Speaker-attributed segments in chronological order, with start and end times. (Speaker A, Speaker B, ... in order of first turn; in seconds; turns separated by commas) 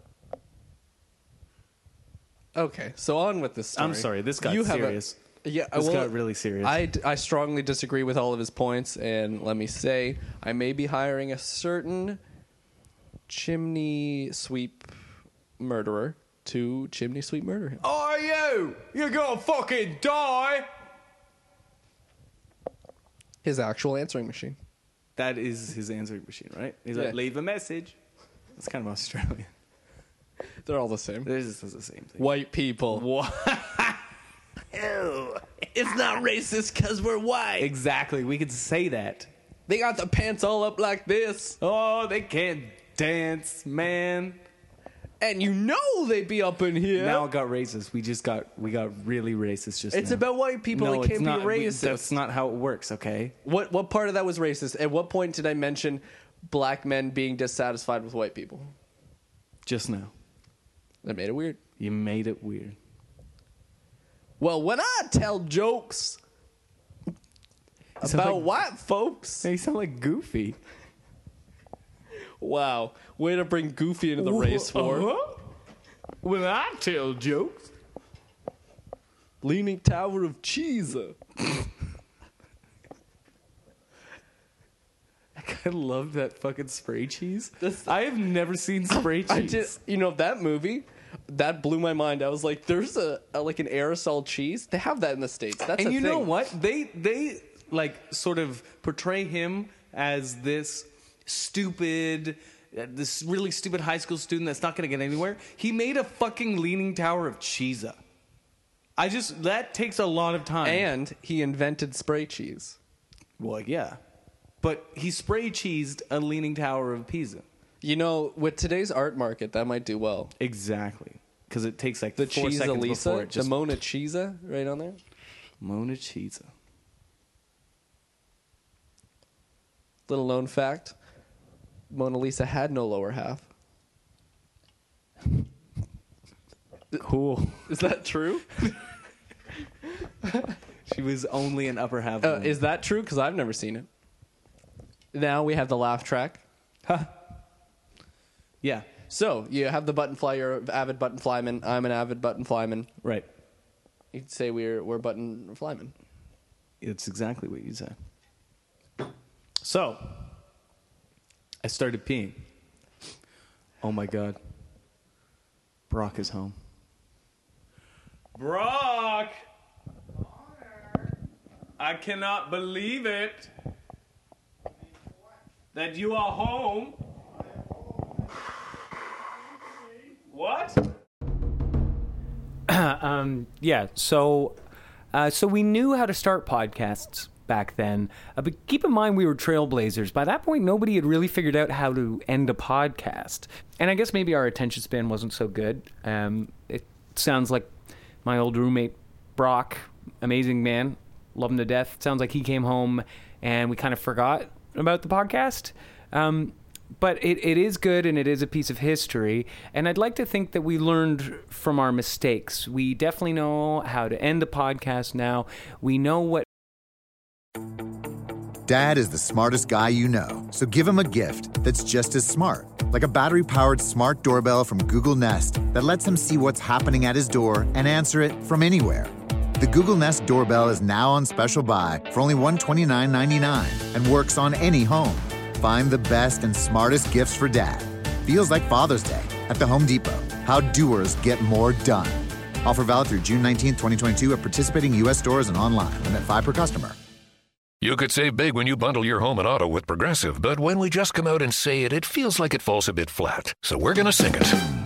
Speaker A: 2.5-12.2, Speaker B: 3.8-5.2, Speaker B: 5.7-6.9, Speaker A: 13.3-14.9, Speaker A: 15.6-17.8, Speaker B: 17.8-20.7, Speaker A: 23.4-24.6, Speaker B: 25.1-27.9, Speaker B: 28.6-29.5, Speaker A: 30.6-31.3, Speaker B: 31.2-32.3, Speaker A: 32.2-33.0, Speaker B: 32.9-34.0, Speaker B: 34.7-35.4, Speaker A: 35.7-37.7, Speaker B: 37.6-39.3, Speaker A: 39.7-41.6, Speaker B: 41.6-44.4, Speaker A: 45.2-47.3, Speaker B: 46.9-53.4, Speaker A: 49.9-52.1, Speaker A: 53.4-58.7, Speaker B: 59.6-60.1, Speaker A: 61.0-61.6, Speaker B: 61.8-62.8, Speaker A: 64.4-66.2, Speaker B: 68.0-68.5, Speaker A: 68.0-69.5, Speaker B: 69.4-70.6, Speaker A: 72.4-75.1, Speaker B: 74.2-75.4, Speaker B: 76.2-77.7, Speaker A: 79.4-81.2, Speaker B: 85.3-89.7, Speaker A: 87.6-87.9, Speaker A: 88.9-96.3, Speaker B: 95.8-108.0, Speaker B: 109.0-110.9, Speaker A: 110.6-112.8, Speaker B: 113.4-114.0, Speaker B: 114.6-117.4, Speaker A: 117.8-120.3, Speaker B: 120.4-123.5, Speaker A: 122.2-125.0, Speaker B: 125.6-126.5, Speaker A: 130.1-130.9, Speaker A: 131.9-133.4, Speaker B: 136.9-137.7, Speaker A: 137.7-138.6, Speaker B: 140.8-142.6, Speaker A: 142.2-143.9, Speaker A: 145.1-146.4, Speaker B: 146.8-147.1, Speaker B: 148.6-148.9, Speaker A: 149.1-152.9, Speaker A: 154.1-155.9, Speaker B: 156.8-157.9, Speaker B: 159.6-160.3, Speaker B: 161.6-162.4, Speaker B: 163.8-164.4, Speaker B: 165.9-166.6, Speaker B: 168.3-169.3, Speaker B: 171.8-173.5, Speaker B: 175.7-177.0, Speaker B: 180.2-180.8, Speaker C: 182.7-184.6, Speaker C: 185.1-197.7, Speaker C: 198.2-216.4, Speaker D: 218.7-247.0, Speaker E: 247.8-254.6